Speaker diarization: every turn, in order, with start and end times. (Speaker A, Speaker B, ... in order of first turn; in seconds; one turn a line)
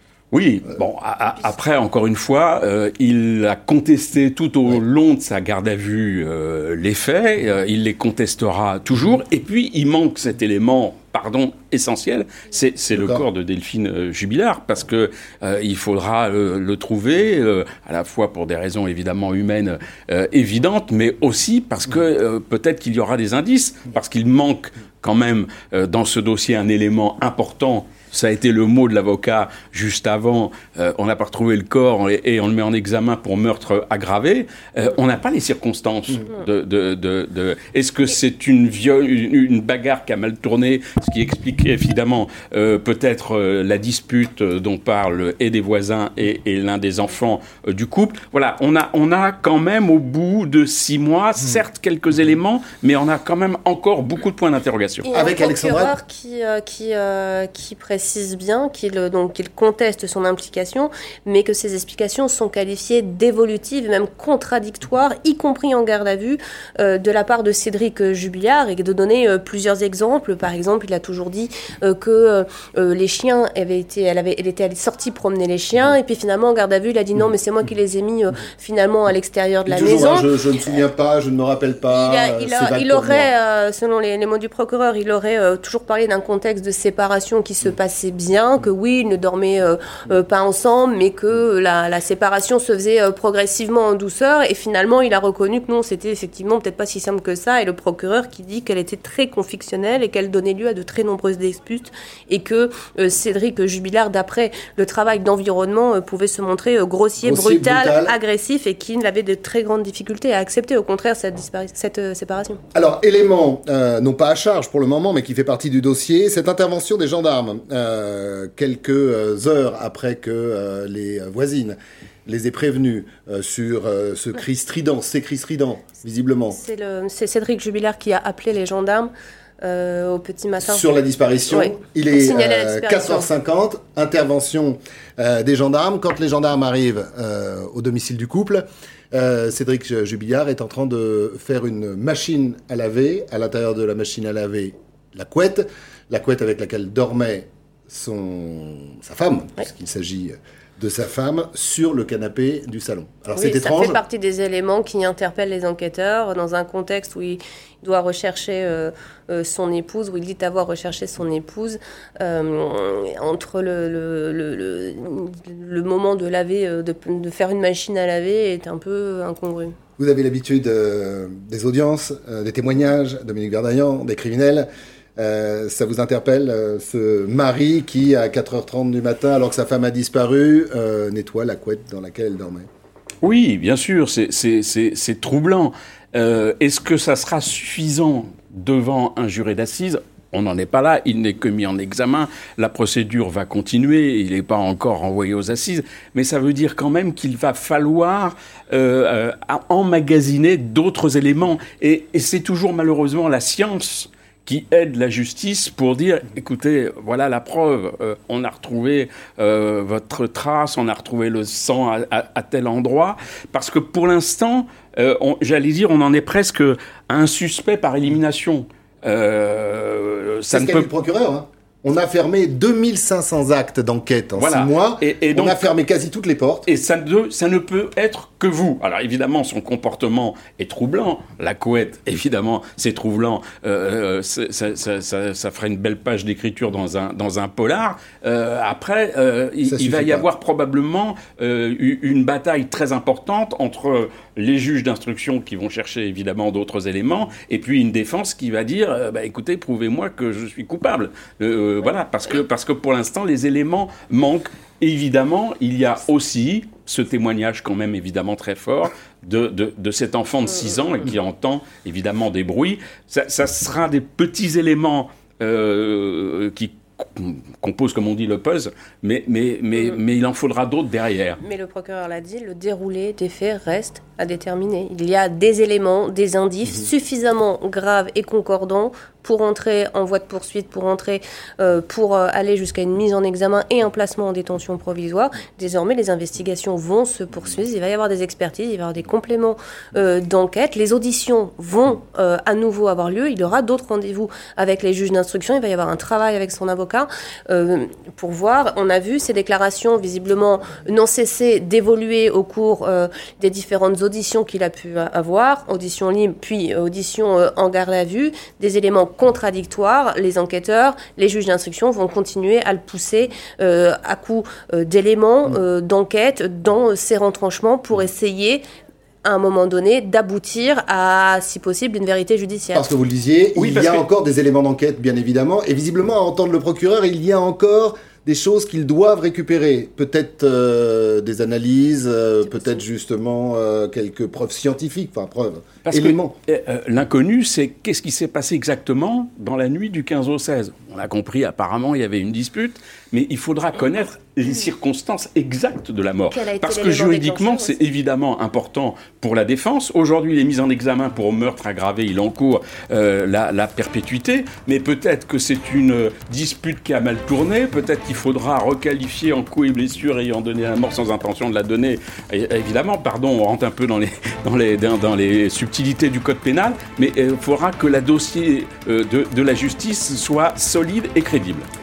Speaker A: 0.3-55.1
Speaker B: 12.9-13.2
Speaker C: 55.1-80.3
Speaker B: 55.1-56.0
Speaker B: 79.7-83.3
Speaker C: 82.0-112.6
Speaker B: 107.2-108.2
Speaker B: 112.7-126.6
Speaker C: 126.5-130.8
Speaker B: 130.6-154.0
Speaker C: 131.5-133.3
Speaker C: 153.3-169.8
Speaker B: 170.0-182.7
Speaker A: 183.2-220.9
Speaker B: 220.5-226.7
Speaker A: 224.4-225.7
Speaker A: 226.7-271.4
Speaker B: 239.6-240.3
Speaker C: 271.4-318.6
Speaker C: 319.2-322.9
Speaker B: 322.7-336.3
Speaker A: 323.6-324.0
Speaker C: 332.4-332.8
Speaker A: 335.9-371.7
Speaker C: 346.3-347.8